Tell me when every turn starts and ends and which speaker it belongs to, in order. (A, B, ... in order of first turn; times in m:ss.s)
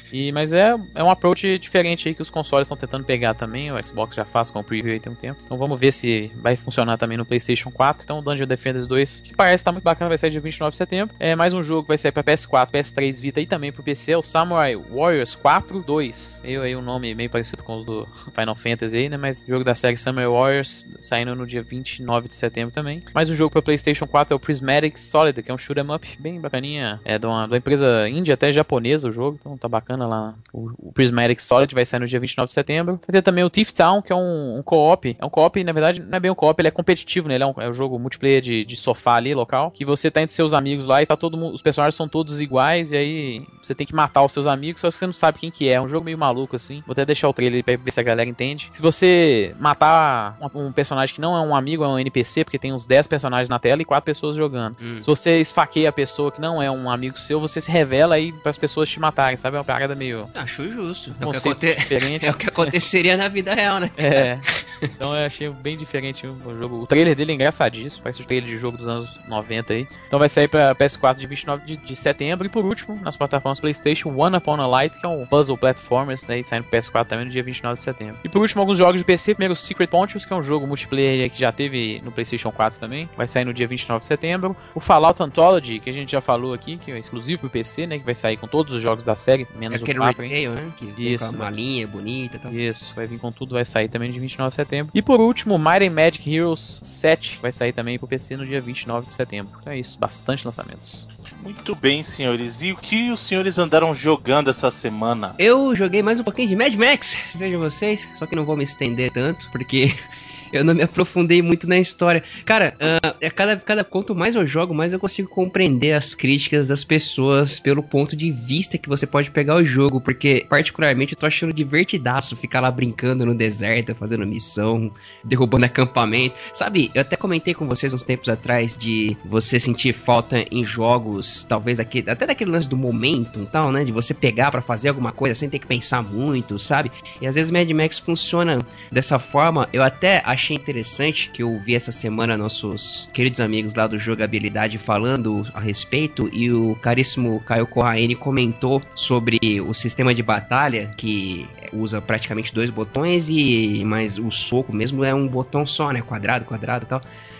0:00.1-1:00.3 A
0:54.8-0:55.1 B
1:00.3-1:04.9 B
1:01.2-1:02.8 A
1:04.0-1:04.4 A
1:05.0-1:30.3 A
1:29.7-1:32.5 B
1:31.0-1:31.5 A
1:32.5-1:41.1 A
1:41.4-1:45.4 C
1:45.4-1:49.9 B
1:50.5-2:37.0 B